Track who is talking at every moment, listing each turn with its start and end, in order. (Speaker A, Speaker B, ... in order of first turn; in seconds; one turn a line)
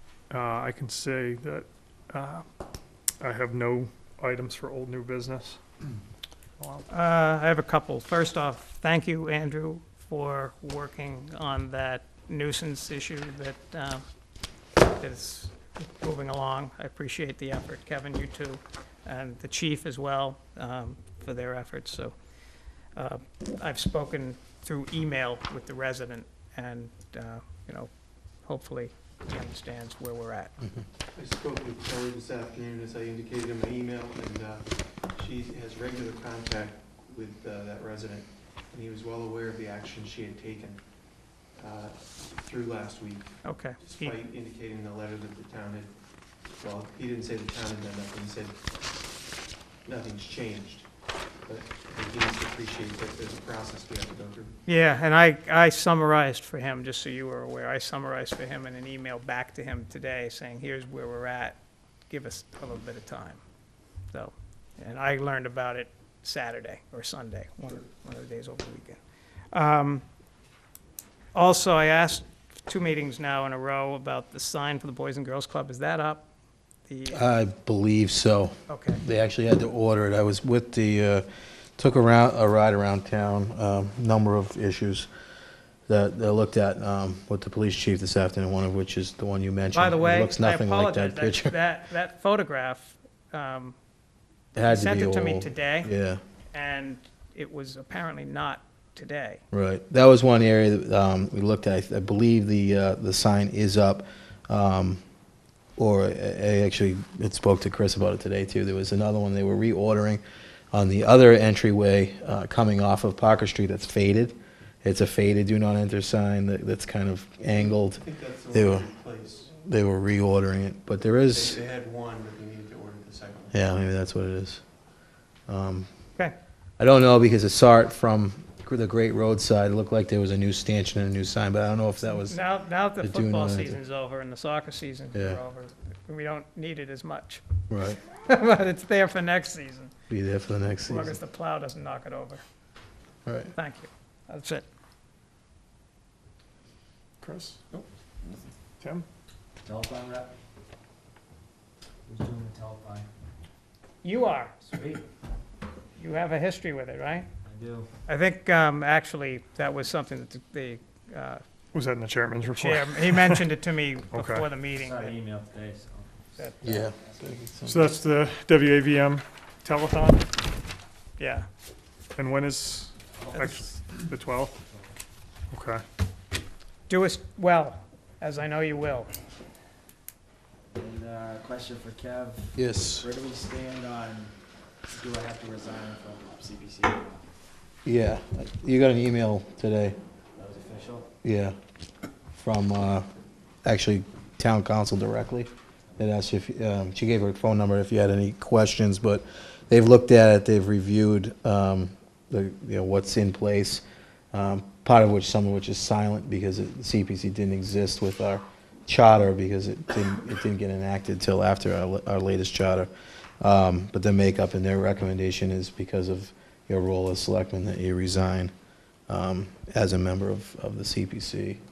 Speaker A: 0.3-2.5
Speaker A: 3.2-5.6
Speaker A: 6.6-6.9
Speaker B: 6.9-14.0
Speaker B: 14.9-22.1
Speaker B: 22.9-27.9
Speaker B: 28.4-30.5
Speaker C: 31.1-40.8
Speaker C: 41.6-45.9
Speaker B: 43.4-44.2
Speaker C: 46.5-48.6
Speaker C: 49.9-50.9
Speaker C: 51.5-54.5
Speaker B: 54.7-61.6
Speaker B: 62.1-63.4
Speaker B: 64.1-69.0
Speaker B: 69.5-70.0
Speaker B: 71.3-76.3
Speaker B: 76.9-77.3
Speaker D: 77.1-81.3
Speaker B: 78.7-79.0
Speaker D: 81.8-85.1
Speaker D: 85.9-91.6
Speaker B: 89.7-93.8
Speaker D: 94.5-96.2
Speaker B: 94.6-95.9
Speaker B: 96.5-99.4
Speaker D: 99.5-105.0
Speaker D: 105.8-118.9
Speaker C: 117.6-119.5
Speaker D: 119.5-121.6
Speaker C: 121.3-123.6
Speaker D: 123.5-124.6
Speaker D: 125.5-125.9
Speaker D: 126.8-132.4
Speaker B: 132.2-137.4
Speaker D: 133.0-133.8
Speaker D: 135.1-135.4
Speaker D: 137.7-138.0
Speaker B: 138.0-139.9
Speaker D: 140.1-141.2
Speaker B: 140.8-142.4
Speaker D: 143.3-143.5
Speaker B: 143.5-144.7
Speaker A: 147.2-147.6
Speaker C: 147.7-148.4
Speaker E: 149.6-150.3
Speaker E: 152.1-153.1
Speaker B: 154.0-154.6
Speaker E: 154.6-155.1
Speaker B: 156.0-157.3
Speaker E: 157.4-157.9
Speaker B: 158.1-161.4
Speaker A: 161.7-163.5
Speaker B: 162.5-165.2
Speaker A: 164.1-164.5
Speaker E: 164.7-167.2
Speaker B: 166.4-166.9
Speaker D: 166.6-167.9
Speaker A: 167.7-170.3
Speaker B: 171.2-171.5
Speaker A: 172.2-174.6
Speaker E: 173.1-174.0
Speaker E: 174.7-174.9
Speaker A: 175.5-175.8
Speaker B: 176.9-179.1
Speaker E: 180.7-184.3
Speaker D: 182.6-183.1
Speaker E: 184.9-187.3
Speaker D: 187.8-190.0
Speaker E: 190.3-191.1
Speaker D: 191.2-191.6
Speaker D: 192.4-193.1
Speaker D: 193.6-212.9
Speaker D: 213.4-218.5
Speaker D: 219.1-221.6